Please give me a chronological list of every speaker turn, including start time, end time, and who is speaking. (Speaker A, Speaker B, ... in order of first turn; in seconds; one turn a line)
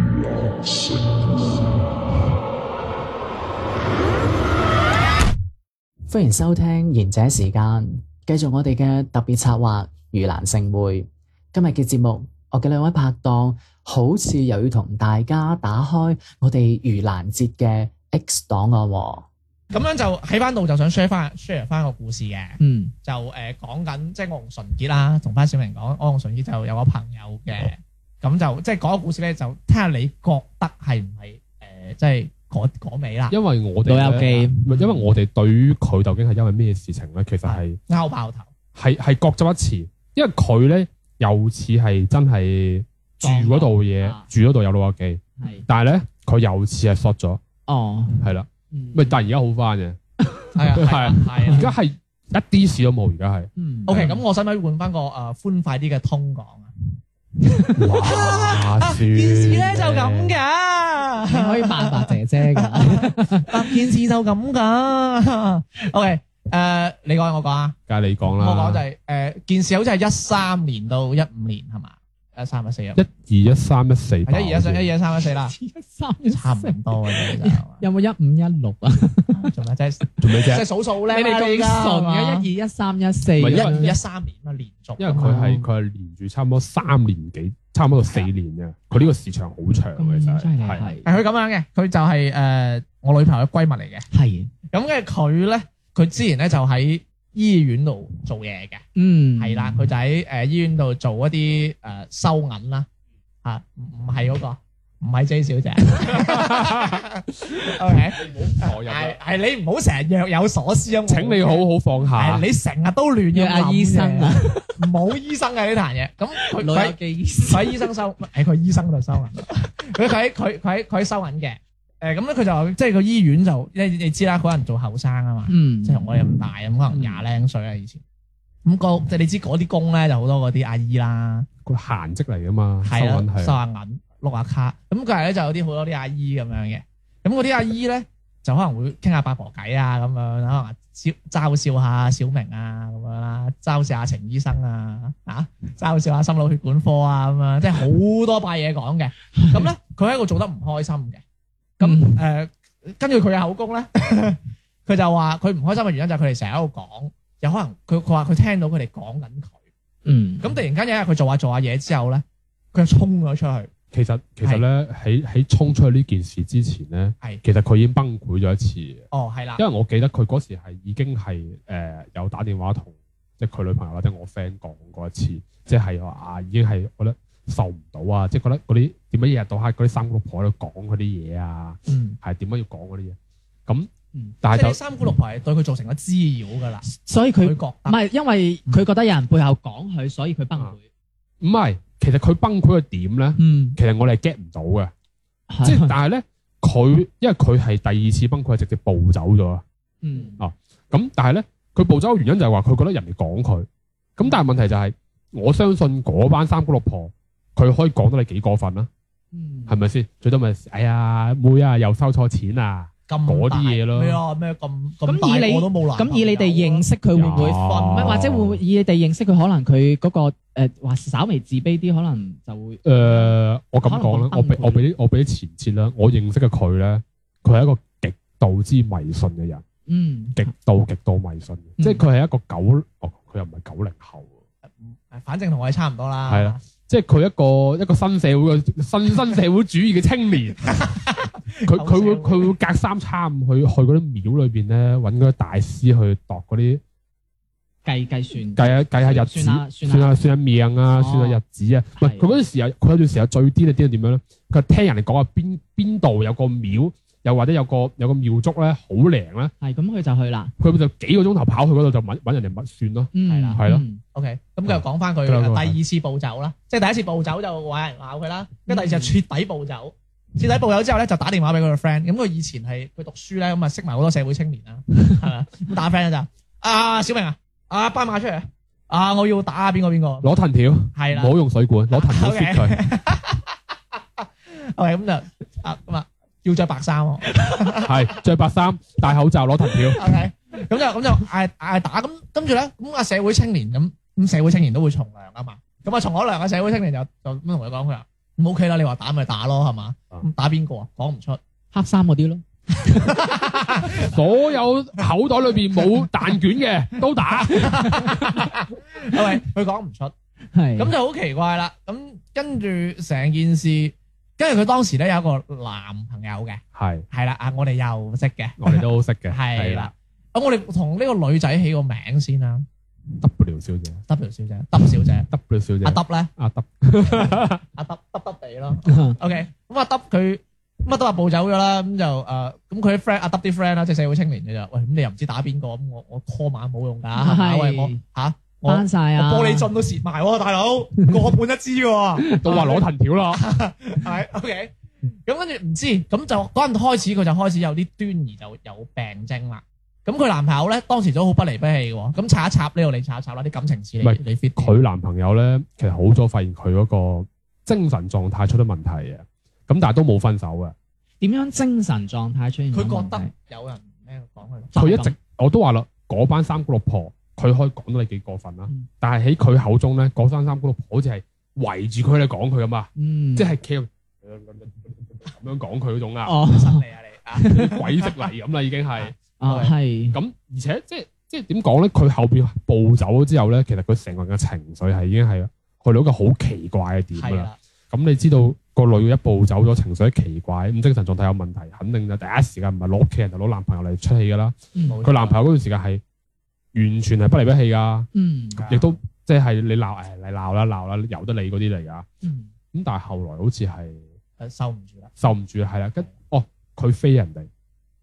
Speaker A: 6.1-19.3
Speaker B: 19.7-33.3
Speaker C: 22.6-22.9
Speaker D: 33.3-37.8
Speaker C: 33.8-35.0
Speaker B: 37.4-38.5
Speaker D: 38.7-47.4
Speaker C: 43.2-44.3
Speaker C: 45.4-45.6
Speaker C: 47.7-49.2
Speaker D: 48.2-50.0
Speaker B: 50.5-51.7
Speaker D: 50.7-54.1
Speaker C: 53.5-54.2
Speaker B: 53.9-56.7
Speaker B: 57.8-67.8
Speaker D: 57.8-60.4
Speaker C: 61.3-63.5
Speaker D: 67.9-68.8
Speaker B: 68.3-73.0
Speaker D: 73.0-74.9
Speaker B: 74.2-75.5
Speaker C: 75.4-79.5
Speaker B: 76.3-77.8
Speaker B: 79.3-82.5
Speaker D: 80.2-80.7
Speaker C: 81.1-83.9
Speaker D: 83.4-83.9
Speaker B: 83.5-85.4
Speaker D: 85.0-90.9
Speaker C: 85.1-85.6
Speaker C: 90.0-91.0
Speaker B: 91.0-94.0
Speaker C: 94.1-94.5
Speaker B: 94.7-98.8
Speaker C: 99.0-99.9
Speaker B: 99.4-102.9
Speaker B: 103.4-117.0
Speaker D: 106.1-109.2
Speaker D: 111.1-112.5
Speaker C: 113.3-114.8
Speaker C: 116.5-117.9
Speaker B: 117.5-128.0
Speaker C: 125.5-126.3
Speaker C: 126.9-127.2
Speaker B: 128.6-131.5
Speaker D: 131.6-133.6
Speaker B: 132.8-151.2
Speaker C: 149.3-149.7
Speaker B: 151.8-159.5
Speaker C: 151.8-152.2
Speaker C: 160.0-160.6
Speaker B: 160.4-163.7
Speaker D: 163.9-183.9
Speaker B: 169.1-169.6
Speaker B: 181.9-182.2
Speaker D: 184.4-184.8
Speaker B: 184.5-188.0
Speaker C: 186.9-190.9
Speaker D: 191.4-194.9
Speaker C: 193.4-193.8
Speaker C: 195.5-195.9
Speaker D: 195.6-199.6
Speaker C: 200.0-200.4
Speaker D: 200.4-208.9
Speaker C: 209.3-209.8
Speaker D: 209.7-214.2
Speaker B: 213.1-216.8
Speaker C: 215.0-224.9
Speaker D: 217.2-218.6
Speaker B: 217.4-218.2
Speaker D: 222.8-229.6
Speaker C: 229.9-230.5
Speaker D: 230.3-234.3
Speaker C: 231.8-232.0
Speaker B: 234.8-236.6
Speaker D: 236.3-240.8
Speaker B: 240.7-242.5
Speaker D: 241.6-246.8
Speaker C: 247.8-250.2
Speaker D: 248.6-259.5
Speaker C: 250.9-251.4
Speaker C: 252.0-252.3
Speaker C: 259.6-260.5
Speaker D: 260.6-263.8
Speaker C: 263.1-264.0
Speaker B: 263.3-263.6
Speaker B: 264.1-280.3
Speaker D: 264.7-265.8
Speaker C: 268.7-269.1
Speaker D: 280.2-282.8
Speaker B: 280.9-281.4
Speaker B: 281.9-283.5
Speaker B: 284.2-288.2
Speaker D: 287.8-290.0
Speaker B: 289.9-301.4
Speaker C: 301.7-303.2
Speaker B: 302.8-304.1
Speaker D: 303.9-308.5
Speaker B: 307.4-310.1
Speaker C: 307.8-308.1
Speaker C: 310.5-310.9
Speaker B: 310.8-322.6
Speaker D: 316.7-317.1
Speaker D: 318.6-319.9
Speaker D: 323.2-324.0
Speaker B: 324.1-325.3
Speaker D: 325.3-327.6
Speaker B: 325.8-326.3
Speaker B: 327.1-344.7
Speaker C: 328.8-329.2
Speaker C: 337.2-338.0
Speaker C: 338.6-339.7
Speaker D: 342.4-343.4
Speaker B: 345.2-354.8
Speaker D: 354.0-360.7
Speaker C: 361.2-363.3
Speaker B: 362.7-364.8
Speaker C: 364.7-365.1
Speaker D: 364.7-376.4
Speaker C: 373.0-373.5
Speaker C: 376.2-376.8
Speaker B: 376.5-378.3
Speaker C: 377.4-377.7
Speaker D: 377.4-379.1
Speaker B: 379.0-379.7
Speaker C: 379.4-380.2
Speaker D: 380.1-396.0
Speaker B: 387.1-387.6
Speaker C: 394.7-395.0
Speaker B: 394.9-395.4
Speaker D: 396.7-398.1
Speaker C: 398.1-398.7
Speaker B: 398.6-398.9
Speaker D: 398.7-402.1
Speaker C: 402.2-402.5
Speaker D: 402.7-404.0
Speaker B: 404.4-405.1
Speaker D: 405.2-407.5